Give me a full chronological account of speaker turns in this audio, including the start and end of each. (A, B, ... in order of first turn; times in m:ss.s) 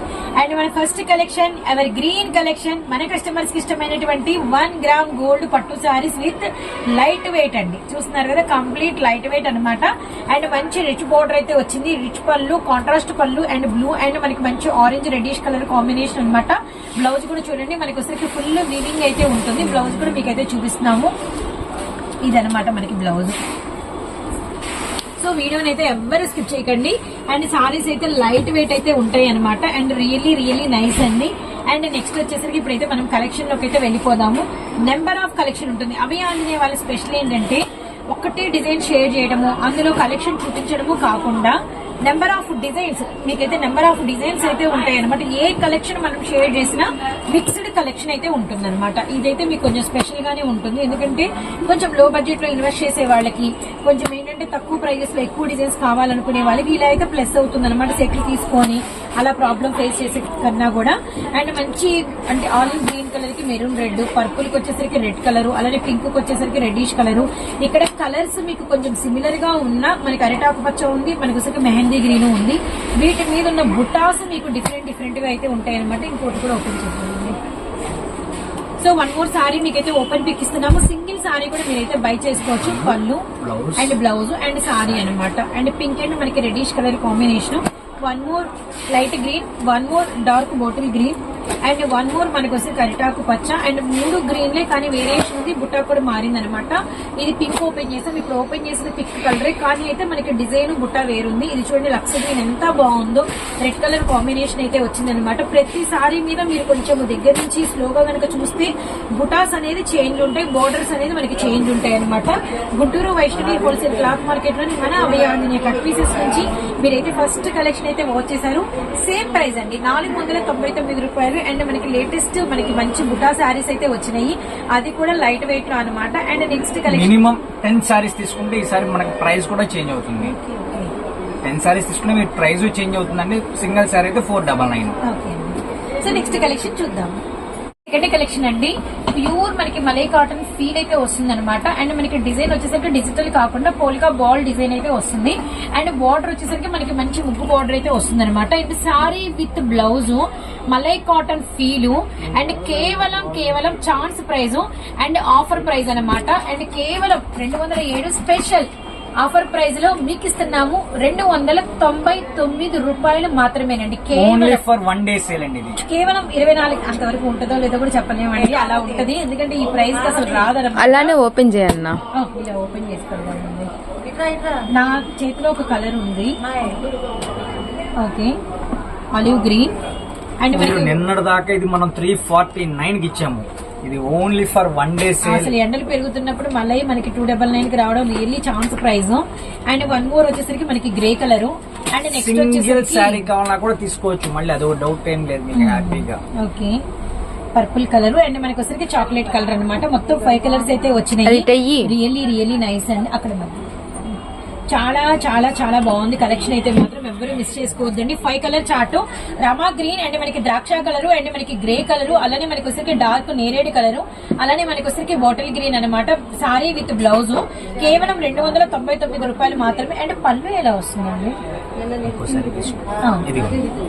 0:00.4-0:21.1 A
0:22.2-0:23.4 A
0:25.2-1:17.4 A
1:18.8-2:07.2 A
1:22.5-1:24.0 B
2:06.8-2:10.4 B
2:10.2-2:10.9 A
2:11.4-2:14.9 B
2:15.0-2:17.2 A
2:17.9-2:44.6 A
2:44.1-2:45.8 B
2:45.8-2:51.2 A
2:50.7-2:52.0 C
2:52.1-2:53.7 A
2:54.1-2:54.6 C
2:54.7-2:56.4 A
2:56.5-2:56.8 C
2:58.0-2:58.3 A
2:59.1-2:59.7 A
3:00.4-3:01.0 A
3:00.5-3:05.5 B
3:05.2-3:13.3 A
3:12.0-3:16.2 B
3:15.5-3:16.8 A
3:17.5-3:24.2 A
3:21.2-3:21.9 C
3:24.7-3:41.3 A
3:42.0-3:43.7 B